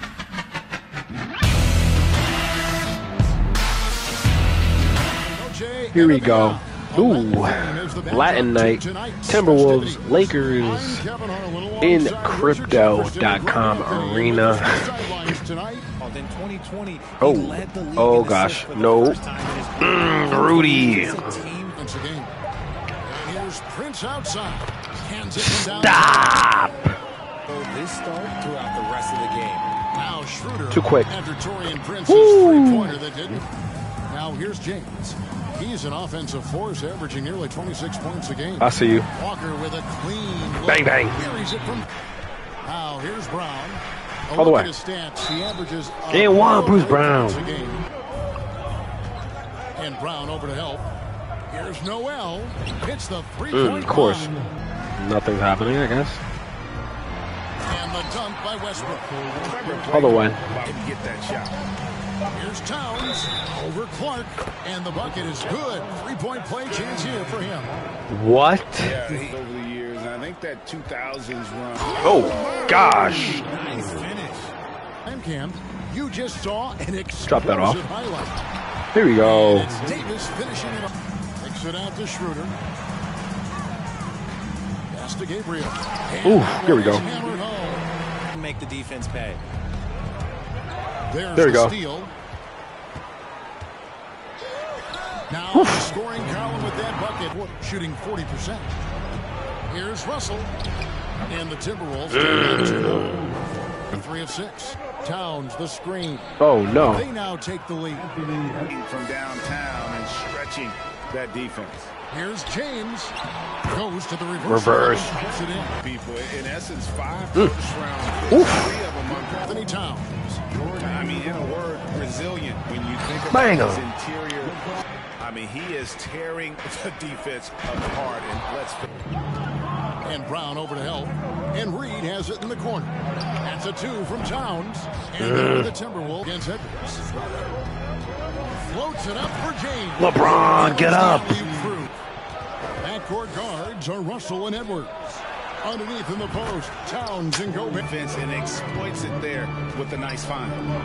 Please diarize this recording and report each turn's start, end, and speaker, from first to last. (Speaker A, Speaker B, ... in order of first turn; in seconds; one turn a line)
Speaker A: 5.2-15.8
Speaker B: 5.9-11.0
Speaker B: 11.8-15.3
Speaker C: 16.0-21.8
Speaker B: 17.2-19.2
Speaker B: 19.8-21.4
Speaker A: 21.7-22.3
Speaker A: 23.0-26.5
Speaker B: 25.4-26.9
Speaker C: 27.5-29.7
Speaker A: 29.9-33.4
Speaker B: 30.7-31.1
Speaker B: 32.1-33.0
Speaker A: 34.1-41.9
Speaker B: 38.6-39.1
Speaker B: 40.6-41.2
Speaker A: 42.6-47.9
Speaker B: 44.4-44.7
Speaker B: 46.1-47.4
Speaker A: 49.8-50.9
Speaker A: 51.5-54.4
Speaker B: 53.5-54.3
Speaker B: 55.0-56.2
Speaker A: 57.6-59.3
Speaker C: 59.4-61.5
Speaker B: 59.9-60.4
Speaker A: 62.3-67.7
Speaker B: 68.1-69.0
Speaker C: 68.8-74.5
Speaker B: 72.0-73.4
Speaker A: 75.0-78.4
Speaker B: 77.2-77.8
Speaker B: 78.9-79.7
Speaker A: 79.2-82.6
Speaker A: 84.9-87.8
Speaker B: 86.2-87.0
Speaker C: 88.3-89.4
Speaker A: 91.1-92.1
Speaker B: 91.3-91.7
Speaker A: 95.3-98.7
Speaker B: 95.5-95.9
Speaker A: 99.7-100.5
Speaker A: 101.2-103.3
Speaker B: 102.1-103.3
Speaker A: 103.9-108.1
Speaker B: 106.4-107.0
Speaker C: 108.6-111.9
Speaker A: 112.1-113.1
Speaker A: 113.7-115.8
Speaker B: 114.4-115.2
Speaker C: 115.8-119.5
Speaker B: 118.3-118.7
Speaker A: 119.4-120.4
Speaker C: 120.8-124.6
Speaker B: 123.3-123.8
Speaker C: 125.2-128.9
Speaker A: 130.0-137.1
Speaker B: 135.2-135.7
Speaker A: 138.6-141.9
Speaker B: 140.0-141.5
Speaker A: 142.8-147.8
Speaker C: 147.8-150.6